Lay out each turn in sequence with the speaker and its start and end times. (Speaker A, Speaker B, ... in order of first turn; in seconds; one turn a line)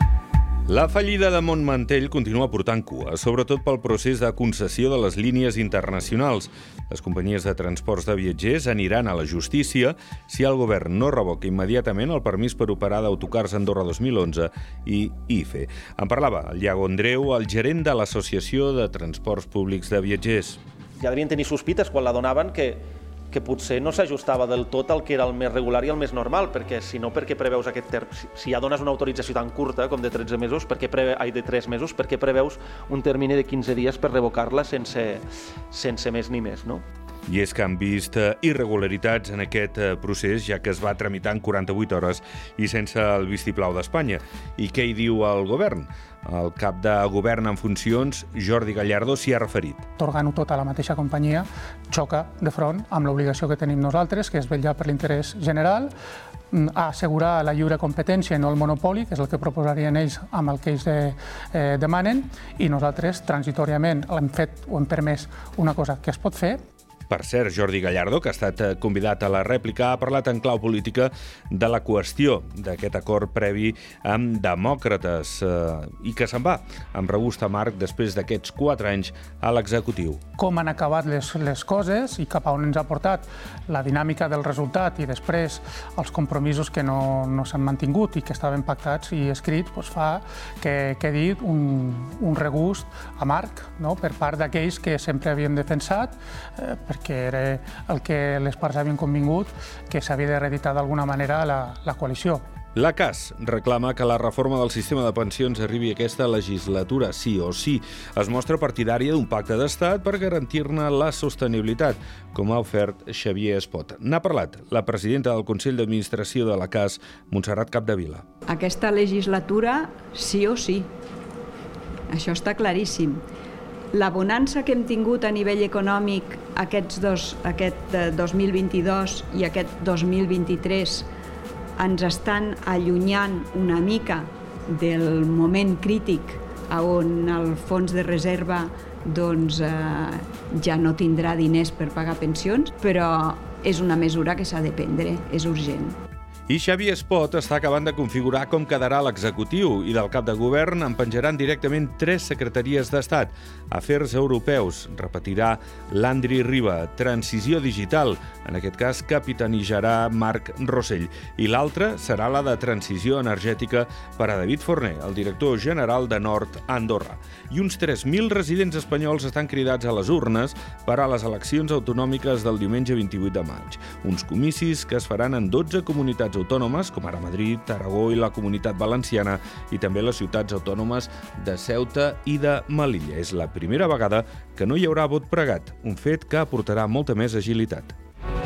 Speaker A: 0.7-20.6
Speaker B: 21.0-36.8
Speaker A: 37.3-49.9
Speaker C: 50.0-55.9
Speaker C: 56.5-66.6
Speaker A: 67.1-80.2
Speaker C: 80.4-102.4
Speaker A: 102.7-118.2
Speaker D: 118.5-120.9
Speaker D: 122.1-123.2
Speaker D: 123.9-131.1
Speaker D: 131.8-146.0
Speaker A: 146.5-187.9